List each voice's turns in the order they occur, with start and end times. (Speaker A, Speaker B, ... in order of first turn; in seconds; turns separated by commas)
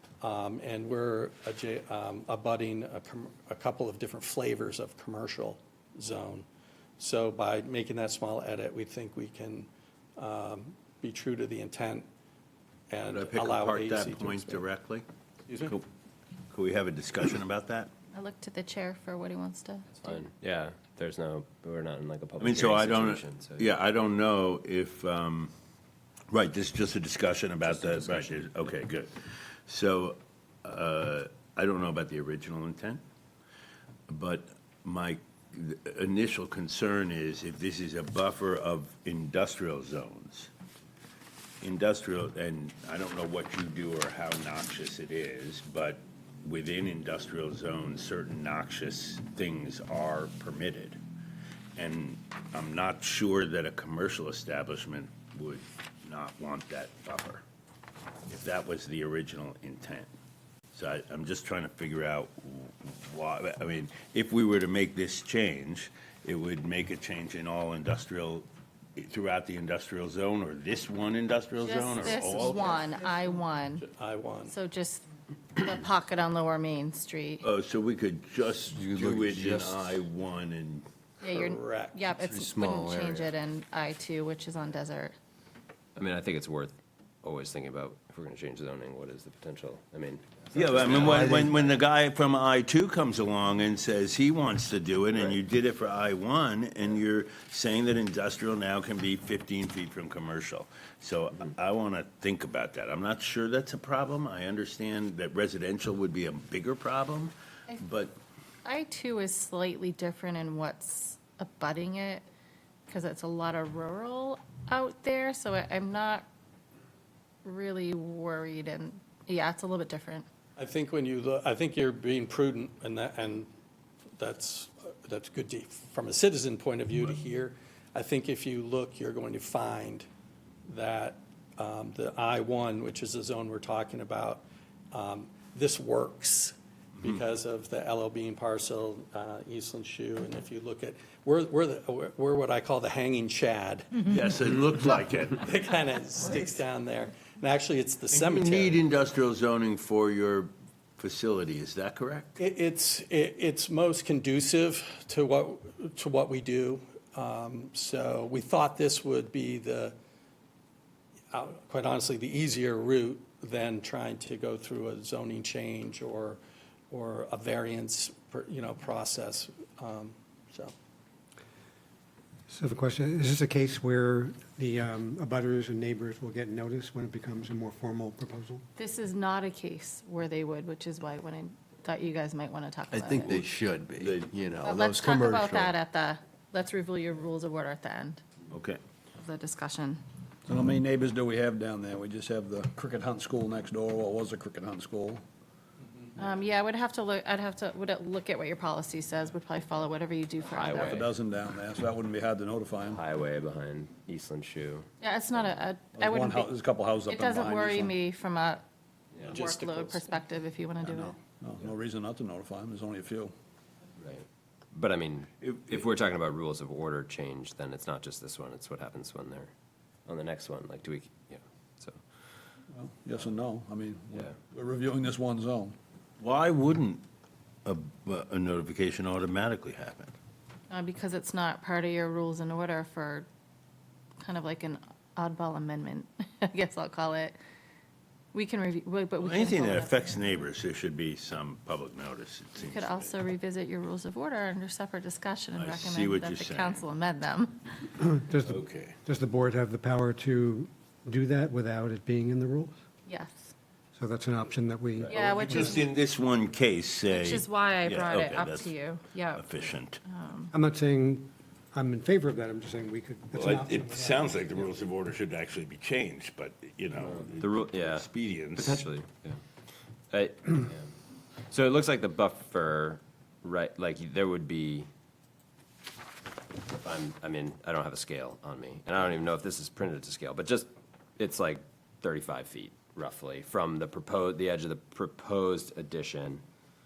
Speaker A: 0.2-6.5, Speaker A: 7.0-12.1, Speaker A: 12.9-14.7, Speaker B: 13.0-15.1, Speaker A: 15.5-15.7, Speaker B: 16.5-17.9, Speaker C: 18.1-20.2, Speaker D: 19.9-23.7, Speaker B: 22.4-25.5, Speaker B: 26.3-29.1, Speaker D: 27.6-28.4, Speaker B: 29.7-33.0, Speaker B: 34.1-40.5, Speaker B: 41.6-51.0, Speaker B: 51.8-57.4, Speaker B: 58.3-60.1, Speaker B: 60.7-72.9, Speaker C: 71.6-73.8, Speaker A: 73.8-74.5, Speaker C: 74.5-77.5, Speaker B: 77.4-80.9, Speaker E: 78.7-80.0, Speaker C: 81.2-85.2, Speaker A: 81.3-82.1, Speaker E: 82.1-83.4, Speaker D: 86.0-91.6, Speaker B: 90.5-108.2, Speaker E: 91.0-91.5, Speaker C: 108.7-112.2, Speaker C: 112.9-116.3, Speaker C: 117.5-120.3, Speaker A: 120.6-123.5, Speaker A: 124.2-130.1, Speaker A: 130.7-144.1, Speaker B: 144.1-145.4, Speaker A: 145.4-148.8, Speaker B: 148.1-152.3, Speaker A: 152.4-159.9, Speaker A: 161.3-170.7, Speaker F: 172.5-178.7, Speaker C: 178.8-183.3, Speaker E: 182.9-185.7, Speaker B: 184.0-184.3, Speaker C: 184.6-188.2, Speaker B: 188.5-188.8, Speaker C: 189.2-190.0, Speaker G: 190.5-195.2, Speaker C: 196.2-201.0, Speaker D: 200.5-201.1, Speaker G: 200.8-203.0, Speaker D: 202.9-204.9, Speaker C: 205.0-208.6, Speaker G: 205.9-208.0, Speaker D: 209.2-209.4, Speaker C: 209.2-211.2, Speaker A: 209.3-210.0, Speaker G: 210.9-213.3, Speaker D: 214.0-219.5, Speaker B: 215.4-215.9, Speaker D: 220.1-222.0, Speaker G: 222.7-225.8, Speaker B: 226.2-227.0, Speaker B: 227.7-230.2, Speaker C: 230.7-233.3, Speaker C: 234.2-237.4, Speaker C: 238.3-240.1, Speaker B: 239.2-243.1, Speaker C: 242.6-247.8, Speaker B: 245.6-246.8, Speaker F: 248.0-252.8, Speaker B: 248.4-249.0, Speaker C: 253.1-253.5, Speaker F: 254.0-255.2, Speaker B: 255.1-258.8, Speaker C: 255.1-255.9, Speaker C: 257.1-259.5, Speaker B: 259.3-260.0, Speaker C: 260.1-260.5, Speaker F: 260.5-264.5, Speaker B: 263.3-268.9, Speaker D: 267.0-269.4, Speaker D: 270.1-270.9, Speaker D: 271.5-274.9, Speaker D: 276.7-286.4